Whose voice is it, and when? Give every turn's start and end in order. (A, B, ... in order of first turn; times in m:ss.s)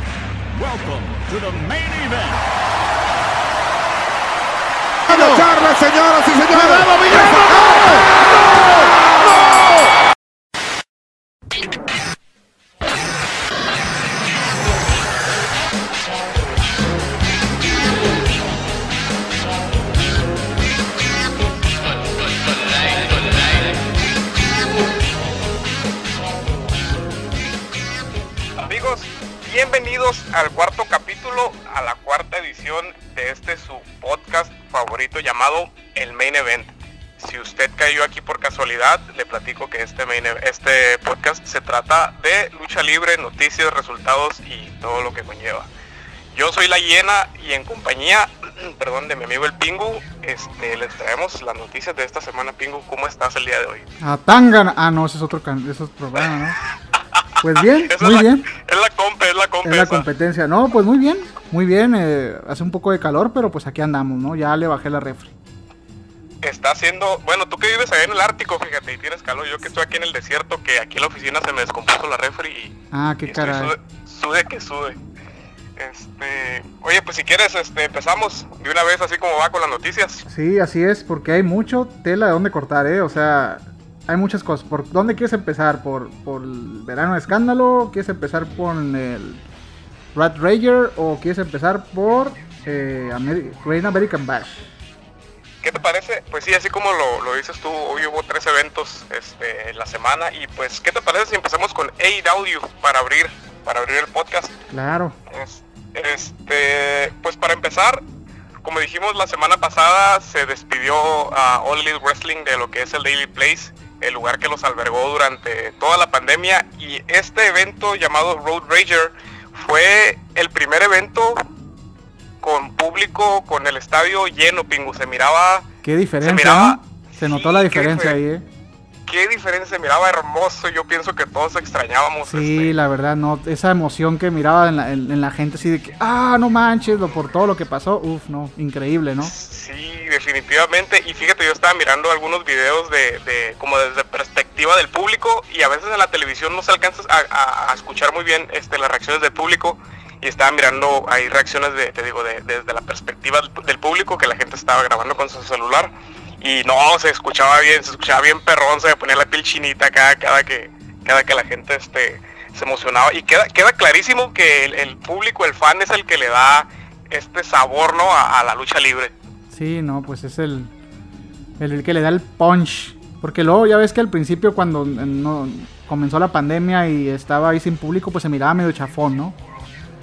0:00.6-0:02.4 A
0:05.1-0:09.9 B
0:05.1-0:05.5 A
0:06.5-0:07.5 A
0:28.6-0:45.7 C
0:46.3-0:53.9 C
0:54.0-0:56.6 D
0:57.4-0:58.5 D
0:57.8-1:00.1 C
0:59.6-1:05.3 D
1:06.4-1:15.0 C
1:12.9-1:13.7 D
1:15.8-1:20.2 C
1:20.3-1:29.4 D
1:30.2-1:34.6 D
1:35.6-1:44.5 C
1:44.7-1:45.2 D
1:45.3-1:48.0 C
1:48.6-2:01.4 C
2:02.4-2:05.7 C
2:05.8-2:08.4 D
2:06.2-2:08.2 C
2:09.1-2:12.8 C
2:12.2-2:19.3 D
2:19.2-2:49.1 C
2:49.5-2:50.7 D
2:51.6-2:59.4 D